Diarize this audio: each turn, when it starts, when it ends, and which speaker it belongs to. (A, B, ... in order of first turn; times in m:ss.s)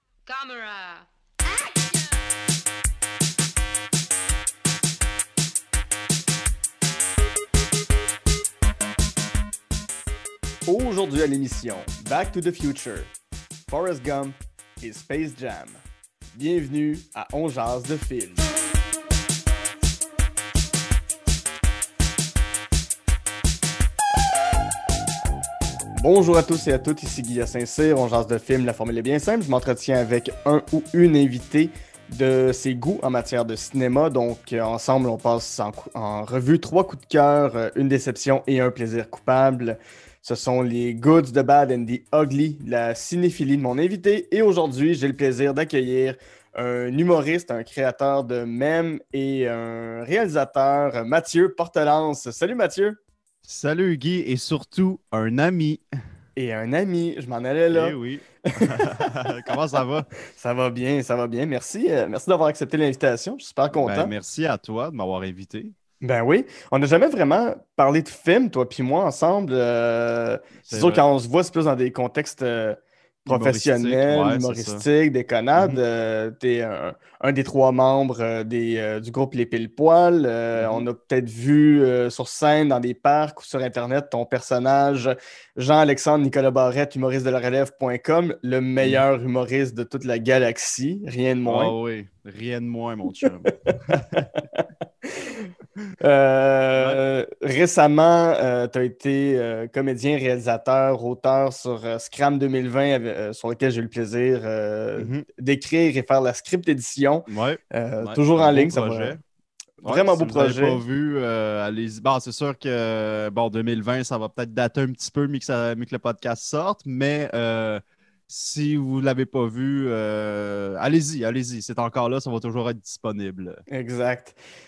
0:00.3-0:02.2 A
0:10.7-0:13.1 B
0:13.7-0:15.8 B
0:16.4-0:18.5 B
0:26.0-0:53.0 B
0:53.4-0:55.8 C
0:56.4-0:58.0 B
0:57.7-1:00.1 C
0:58.5-0:59.1 B
1:00.3-1:04.1 B
1:03.7-1:05.8 C
1:06.0-1:31.7 B
1:10.7-1:11.0 C
1:13.3-1:14.8 C
1:20.6-1:20.9 C
1:31.4-1:34.3 C
1:33.9-1:35.5 B
1:36.0-1:49.2 B
1:45.0-1:45.2 C
1:47.3-1:49.2 C
1:49.8-1:50.8 B
1:49.8-2:03.6 C
2:03.7-2:04.4 B